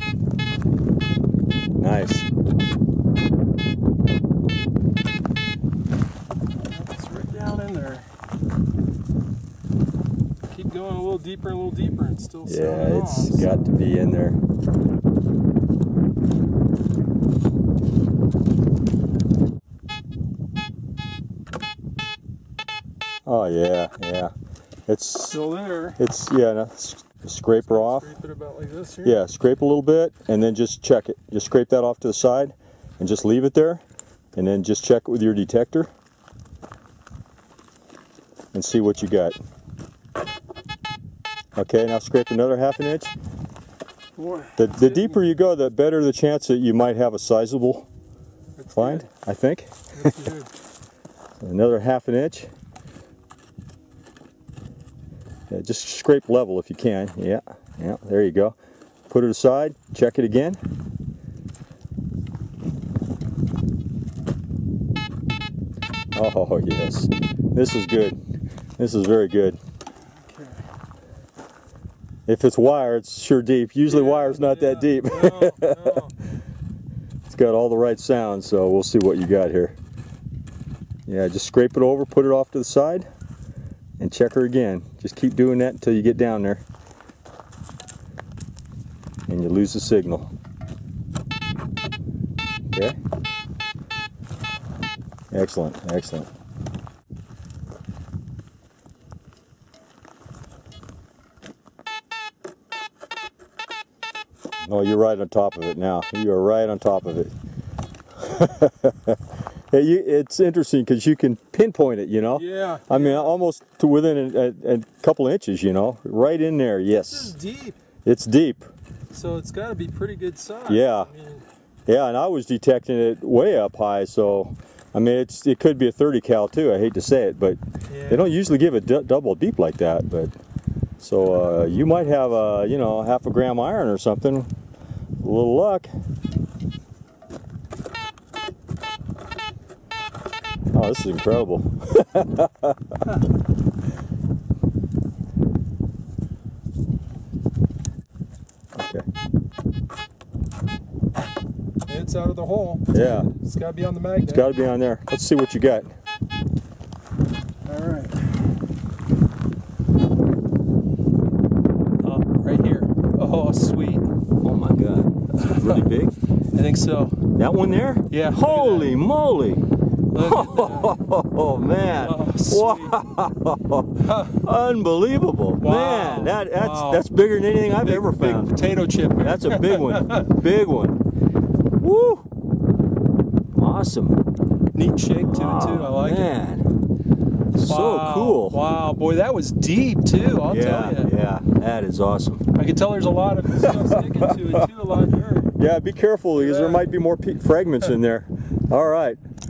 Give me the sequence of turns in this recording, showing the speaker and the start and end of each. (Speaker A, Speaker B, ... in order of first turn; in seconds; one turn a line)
Speaker A: 1.8-2.3
Speaker B: 6.6-8.1
Speaker B: 10.5-13.7
Speaker A: 12.4-14.4
Speaker A: 23.2-24.3
Speaker A: 24.9-25.4
Speaker B: 25.3-26.0
Speaker A: 26.0-28.1
Speaker B: 27.7-29.2
Speaker A: 29.0-33.8
Speaker A: 34.4-35.9
Speaker A: 38.5-39.4
Speaker A: 41.5-43.1
Speaker B: 44.1-45.2
Speaker A: 44.6-47.9
Speaker B: 48.6-49.0
Speaker A: 48.8-49.9
Speaker B: 50.0-50.5
Speaker A: 51.4-52.5
Speaker A: 55.5-58.5
Speaker A: 59.1-60.6
Speaker A: 66.1-68.2
Speaker A: 68.8-69.6
Speaker B: 70.2-70.6
Speaker A: 72.3-76.0
Speaker B: 73.8-76.1
Speaker A: 77.3-79.7
Speaker A: 81.1-83.1
Speaker A: 84.0-86.6
Speaker A: 89.3-90.3
Speaker A: 95.3-96.3
Speaker A: 104.6-107.3
Speaker A: 108.2-109.2
Speaker A: 109.7-117.3
Speaker B: 112.3-113.4
Speaker B: 116.9-117.8
Speaker A: 118.0-118.7
Speaker B: 119.1-121.5
Speaker A: 120.7-121.1
Speaker A: 121.9-130.3
Speaker B: 127.9-128.3
Speaker A: 131.0-134.5
Speaker B: 131.2-132.3
Speaker A: 135.2-135.9
Speaker A: 140.7-142.8
Speaker A: 148.7-149.0
Speaker B: 151.9-154.5
Speaker A: 152.9-153.3
Speaker A: 154.2-155.9
Speaker B: 157.6-158.2
Speaker B: 162.0-164.1
Speaker A: 164.4-166.1
Speaker B: 165.4-165.8
Speaker B: 166.5-167.2
Speaker A: 167.3-169.6
Speaker B: 168.1-169.0
Speaker B: 170.1-170.9
Speaker A: 170.2-178.5
Speaker B: 172.0-172.9
Speaker B: 174.0-174.4
Speaker B: 175.6-177.1
Speaker B: 177.7-180.3
Speaker A: 179.2-181.0
Speaker A: 181.8-182.2
Speaker A: 183.5-184.2
Speaker B: 184.7-186.4
Speaker A: 185.1-186.6
Speaker A: 187.5-188.6
Speaker B: 187.6-191.1
Speaker A: 190.5-192.4
Speaker B: 192.5-195.5
Speaker A: 193.5-194.7
Speaker A: 195.5-199.2
Speaker B: 196.3-196.9